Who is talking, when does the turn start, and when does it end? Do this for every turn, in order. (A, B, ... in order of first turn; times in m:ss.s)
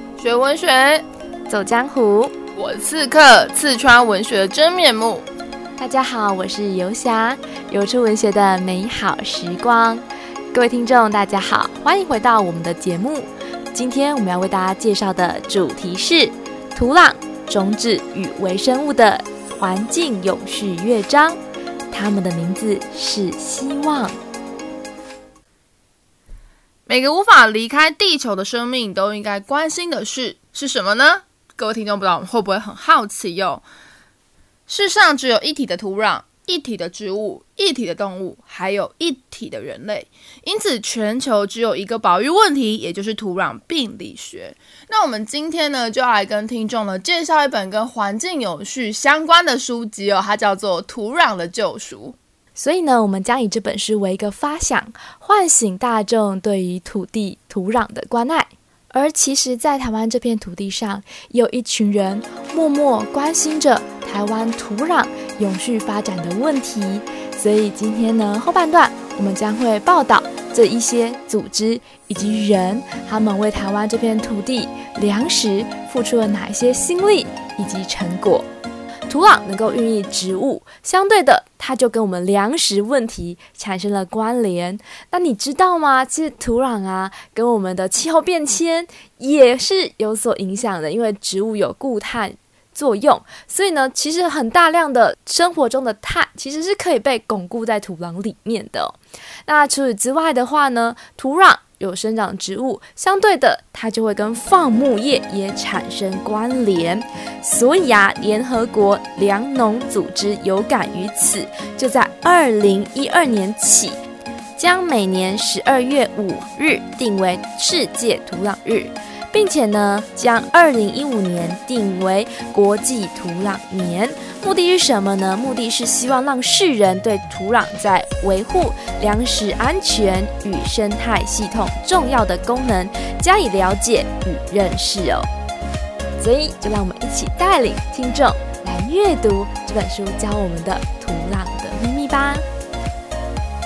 0:00.2-0:01.0 A
0:01.5-0:02.3 B
0:02.6-0:05.2 A
0:05.8-0:21.4 B
0:21.9-0:24.2 B
0:26.9-0:33.6 A
0:34.7-0:52.2 A
0:52.6-1:18.5 B
1:19.1-1:54.0 B
1:54.6-2:15.3 B
2:16.2-2:22.4 B